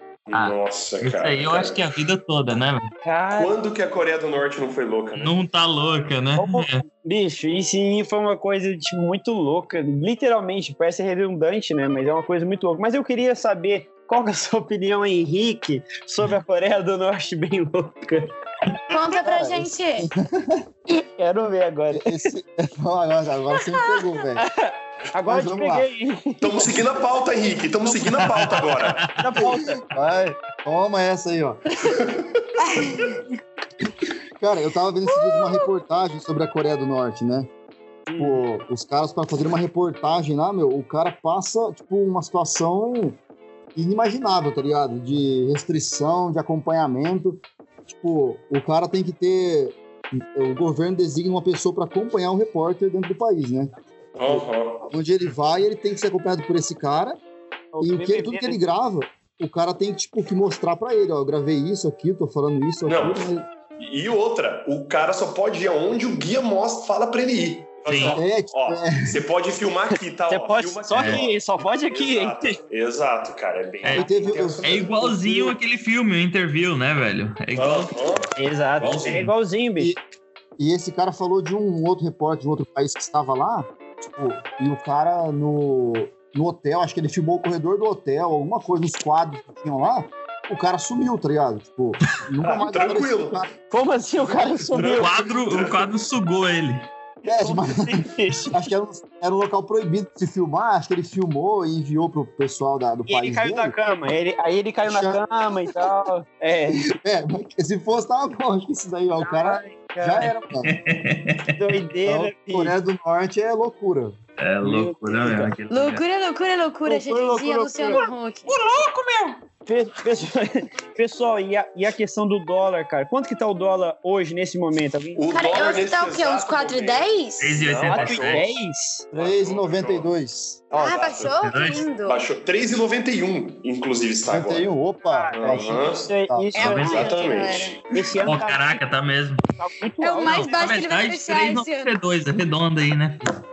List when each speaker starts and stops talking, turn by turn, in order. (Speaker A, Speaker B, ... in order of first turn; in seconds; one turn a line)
Speaker A: 0.3-1.8
Speaker B: 0.3-2.9
Speaker C: 3.0-3.6
Speaker A: 3.3-5.3
Speaker B: 5.2-6.8
Speaker C: 6.4-18.3
Speaker D: 18.9-20.1
Speaker E: 19.2-20.6
Speaker C: 20.9-22.2
Speaker E: 21.9-24.4
Speaker C: 24.4-26.7
Speaker E: 25.2-25.9
Speaker A: 26.4-29.1
Speaker C: 27.8-29.8
Speaker B: 28.2-29.2
Speaker E: 29.9-31.6
Speaker A: 31.9-32.4
Speaker D: 32.6-33.2
Speaker E: 34.4-37.5
Speaker D: 35.1-35.6
Speaker C: 38.1-38.4
Speaker E: 38.2-43.2
Speaker E: 43.8-53.7
Speaker A: 54.1-54.9
Speaker E: 54.3-57.2
Speaker C: 57.7-58.6
Speaker E: 57.8-63.5
Speaker A: 62.9-74.9
Speaker B: 67.8-68.2
Speaker E: 68.0-69.2
Speaker C: 70.3-72.6
Speaker B: 70.9-71.2
Speaker B: 73.8-74.1
Speaker E: 73.9-75.5
Speaker B: 74.6-78.2
Speaker A: 77.5-78.3
Speaker C: 78.4-79.9
Speaker B: 78.8-79.3
Speaker E: 80.6-93.5
Speaker A: 92.4-93.5
Speaker C: 93.7-95.1
Speaker A: 94.3-95.8
Speaker B: 94.8-96.9
Speaker E: 97.2-103.7
Speaker C: 97.3-98.6
Speaker C: 103.0-106.8
Speaker E: 104.8-105.2
Speaker E: 106.8-110.7
Speaker C: 109.2-110.3
Speaker B: 110.6-111.5
Speaker C: 111.5-112.8
Speaker E: 112.0-114.2
Speaker B: 114.4-116.0
Speaker C: 114.6-115.5
Speaker D: 115.7-118.5
Speaker C: 116.8-118.0
Speaker B: 118.5-119.3
Speaker C: 119.7-125.2
Speaker A: 125.2-128.5
Speaker D: 125.3-127.6
Speaker B: 127.4-128.5
Speaker C: 127.9-129.1
Speaker E: 129.1-130.7
Speaker A: 129.1-130.1
Speaker A: 130.7-131.4
Speaker D: 130.7-132.2
Speaker B: 131.2-131.9
Speaker A: 132.0-134.7
Speaker E: 134.3-136.5
Speaker C: 135.0-137.2
Speaker A: 135.3-136.1
Speaker D: 136.5-138.3
Speaker B: 136.6-137.1
Speaker A: 136.6-137.8
Speaker C: 137.9-138.8
Speaker B: 138.2-139.4
Speaker C: 139.6-140.7
Speaker D: 140.0-141.9
Speaker B: 140.2-143.2